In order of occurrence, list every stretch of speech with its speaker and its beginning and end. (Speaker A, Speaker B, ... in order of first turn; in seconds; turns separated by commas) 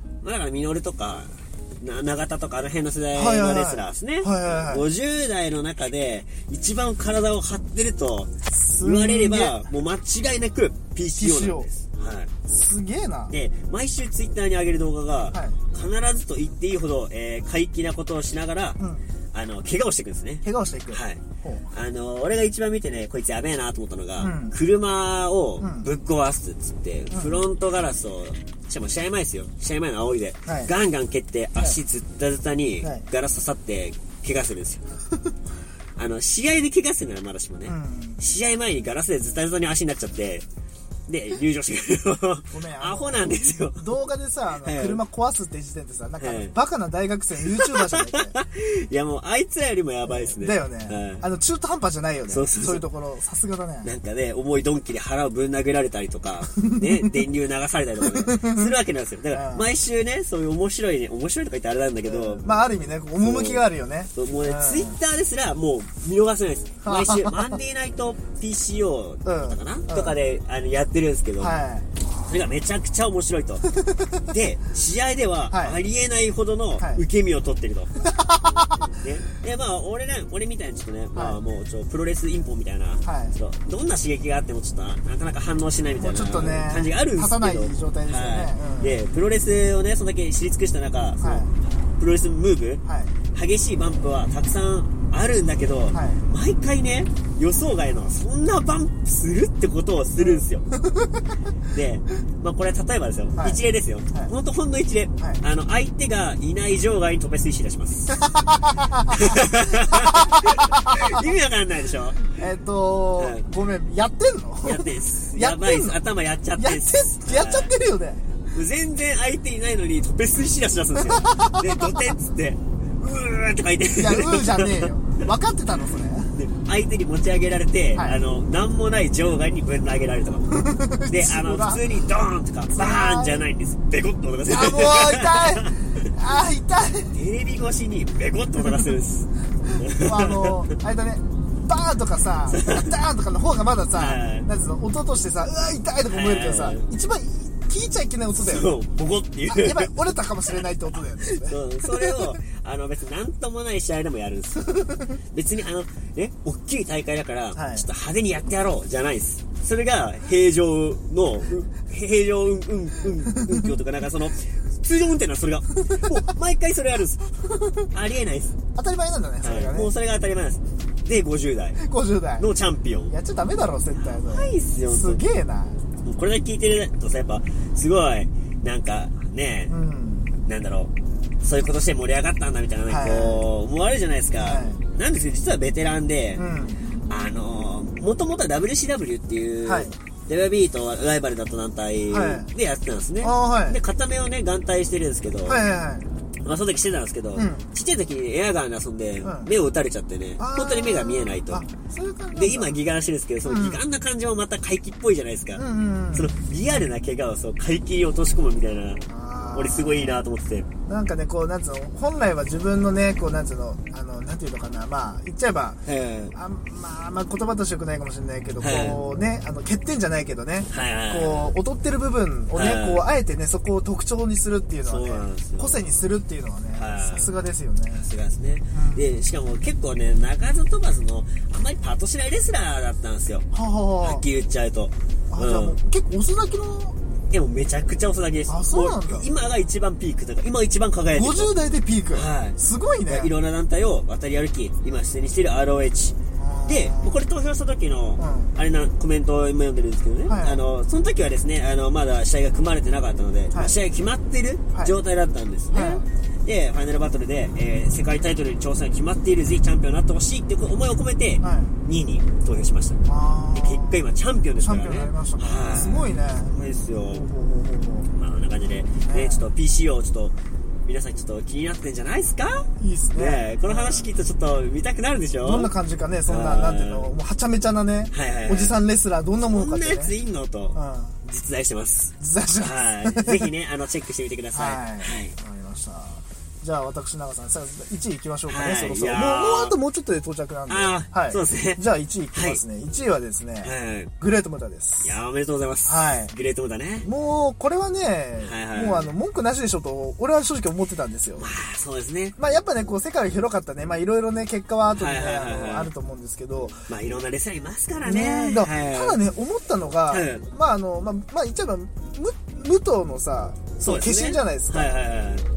Speaker A: 0.2-12.3, Speaker B: 3.1-4.9, Speaker B: 8.5-9.7, Speaker B: 11.2-11.7, Speaker B: 12.5-13.3, Speaker A: 13.3-18.8, Speaker B: 15.3-15.6, Speaker B: 18.8-19.1, Speaker A: 19.3-34.8, Speaker B: 20.4-21.7, Speaker B: 24.2-24.6, Speaker B: 25.6-25.9, Speaker B: 27.1-27.4, Speaker B: 30.5-30.7, Speaker A: 36.0-40.5, Speaker B: 37.7-38.2, Speaker A: 41.1-43.9, Speaker B: 42.5-48.4, Speaker A: 44.6-45.0, Speaker A: 46.2-46.5, Speaker A: 47.4-51.2, Speaker B: 50.1-53.9, Speaker A: 52.3-52.8, Speaker A: 53.8-62.6, Speaker B: 56.5-57.2, Speaker B: 58.0-58.7, Speaker B: 59.3-59.7, Speaker B: 62.0-65.0, Speaker A: 63.2-71.5, Speaker B: 66.8-67.6, Speaker B: 69.2-70.2, Speaker B: 71.4-72.0, Speaker A: 72.3-73.6, Speaker B: 73.8-74.2, Speaker A: 74.3-78.0, Speaker B: 75.5-75.8, Speaker B: 78.0-79.0, Speaker A: 79.0-100.7, Speaker B: 81.1-81.4, Speaker B: 83.0-83.4, Speaker B: 86.0-89.0, Speaker B: 91.2-91.5, Speaker B: 92.8-93.1, Speaker B: 95.9-96.2, Speaker B: 100.2-101.3, Speaker A: 101.7-108.1, Speaker B: 108.1-111.3, Speaker A: 109.1-112.3, Speaker B: 112.3-116.0, Speaker A: 113.2-113.4, Speaker A: 114.6-117.7, Speaker B: 116.6-118.3, Speaker A: 118.5-124.9, Speaker B: 121.0-122.2, Speaker B: 123.9-126.3, Speaker A: 126.3-130.5, Speaker B: 128.0-128.2, Speaker B: 130.5-131.9, Speaker A: 131.1-135.7, Speaker B: 132.7-133.5, Speaker B: 134.5-137.1, Speaker A: 137.1-140.7, Speaker B: 139.6-148.7, Speaker A: 142.5-142.9, Speaker A: 143.9-144.5, Speaker A: 146.1-146.9, Speaker A: 148.4-167.2, Speaker B: 149.5-152.3, Speaker B: 154.7-155.2, Speaker B: 157.6-157.9, Speaker B: 163.3-163.7, Speaker B: 167.4-167.9, Speaker A: 167.9-168.6, Speaker B: 168.8-169.9, Speaker A: 169.4-171.8, Speaker B: 171.8-172.5, Speaker A: 172.4-173.1, Speaker B: 173.1-175.8, Speaker A: 174.0-175.2, Speaker A: 176.0-179.7, Speaker B: 179.7-180.3, Speaker A: 180.5-186.4, Speaker B: 182.9-183.4, Speaker B: 184.4-184.8, Speaker B: 186.4-186.9, Speaker A: 187.1-195.6, Speaker B: 189.7-190.0, Speaker B: 192.1-192.5, Speaker B: 193.2-193.8, Speaker B: 195.5-196.1, Speaker A: 196.4-201.7, Speaker B: 197.3-197.7, Speaker B: 199.2-199.5, Speaker B: 200.4-202.8, Speaker A: 202.3-209.0, Speaker B: 203.4-203.8, Speaker B: 205.6-206.4, Speaker B: 209.1-210.2, Speaker A: 209.5-210.7, Speaker B: 210.9-215.8, Speaker A: 215.8-216.3, Speaker B: 216.3-228.1, Speaker A: 218.6-219.0, Speaker A: 220.7-221.6, Speaker A: 222.5-223.1, Speaker A: 224.8-225.8, Speaker A: 226.8-227.3, Speaker A: 227.9-233.5, Speaker B: 228.7-229.1, Speaker B: 233.5-234.2, Speaker A: 234.0-235.8, Speaker B: 235.3-237.0, Speaker A: 237.3-241.5, Speaker B: 238.5-239.3, Speaker B: 241.1-243.3, Speaker A: 242.1-263.0, Speaker B: 246.3-247.2, Speaker B: 248.2-248.5, Speaker B: 250.3-250.6, Speaker B: 255.7-256.1, Speaker B: 261.4-261.8, Speaker B: 263.1-264.0, Speaker A: 263.5-267.3, Speaker B: 264.6-266.6, Speaker B: 267.1-268.1, Speaker A: 268.2-270.4, Speaker B: 269.1-269.5, Speaker A: 270.9-275.7, Speaker B: 272.8-274.1, Speaker B: 275.4-280.1, Speaker A: 276.3-277.1, Speaker A: 278.1-278.8, Speaker A: 279.4-285.4, Speaker B: 280.7-281.2, Speaker B: 282.2-283.5, Speaker B: 284.5-295.1, Speaker A: 288.5-289.8, Speaker A: 290.7-291.8, Speaker A: 292.3-292.6, Speaker A: 293.6-294.1, Speaker A: 295.0-297.1, Speaker B: 295.9-296.3, Speaker B: 297.0-301.5, Speaker A: 298.4-299.1, Speaker A: 301.4-302.4, Speaker B: 302.4-306.9, Speaker A: 304.9-305.9, Speaker A: 306.9-309.2, Speaker B: 308.1-314.9, Speaker A: 310.1-310.4, Speaker A: 313.8-315.5